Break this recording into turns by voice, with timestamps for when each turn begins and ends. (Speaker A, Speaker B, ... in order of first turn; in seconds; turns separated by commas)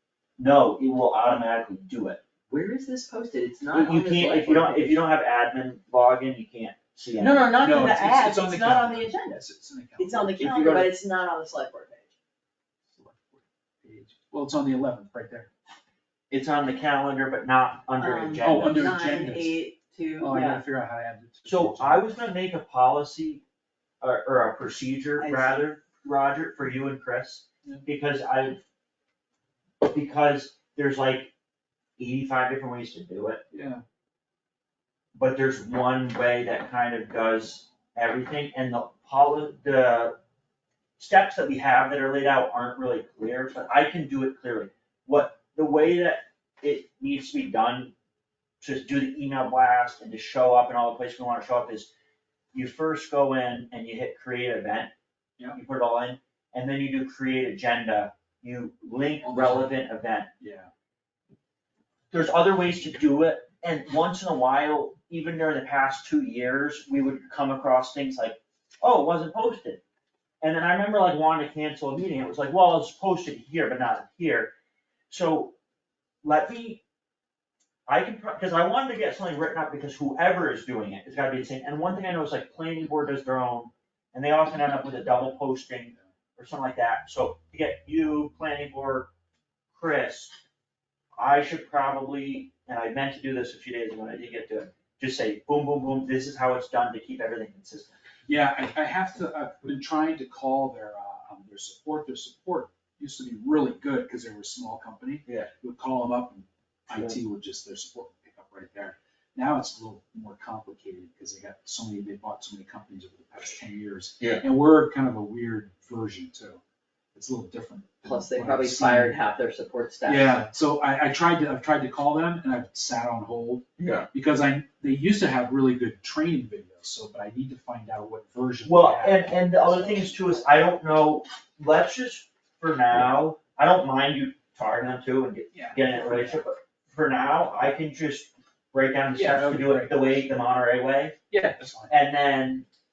Speaker A: 0.4-2.2, Speaker B: 2.5-5.0, Speaker A: 3.7-7.5, Speaker B: 7.2-9.4, Speaker C: 7.6-10.8, Speaker B: 10.0-12.1, Speaker A: 10.4-10.9, Speaker C: 12.9-15.5, Speaker A: 16.3-19.0, Speaker B: 18.0-20.6, Speaker C: 18.4-19.6, Speaker C: 20.2-22.1, Speaker A: 21.4-23.4, Speaker A: 24.0-28.6, Speaker B: 25.2-25.6, Speaker A: 29.8-31.3, Speaker A: 32.0-33.4, Speaker C: 33.5-33.8, Speaker A: 35.1-40.2, Speaker A: 41.0-47.9, Speaker A: 48.6-51.9, Speaker A: 52.5-54.9, Speaker A: 55.5-60.3, Speaker C: 59.2-59.8, Speaker C: 60.4-60.7, Speaker A: 62.1-69.8, Speaker A: 70.4-74.5, Speaker A: 75.1-75.5, Speaker A: 76.2-76.8, Speaker A: 77.9-89.1, Speaker A: 89.7-90.4, Speaker A: 91.2-97.9, Speaker C: 98.3-116.6, Speaker A: 106.9-107.2, Speaker C: 117.1-119.2, Speaker B: 118.0-120.4, Speaker C: 120.0-129.4, Speaker A: 123.8-124.1, Speaker A: 128.7-141.2, Speaker C: 135.5-136.4, Speaker C: 139.1-140.2, Speaker C: 141.3-141.9, Speaker A: 141.9-142.7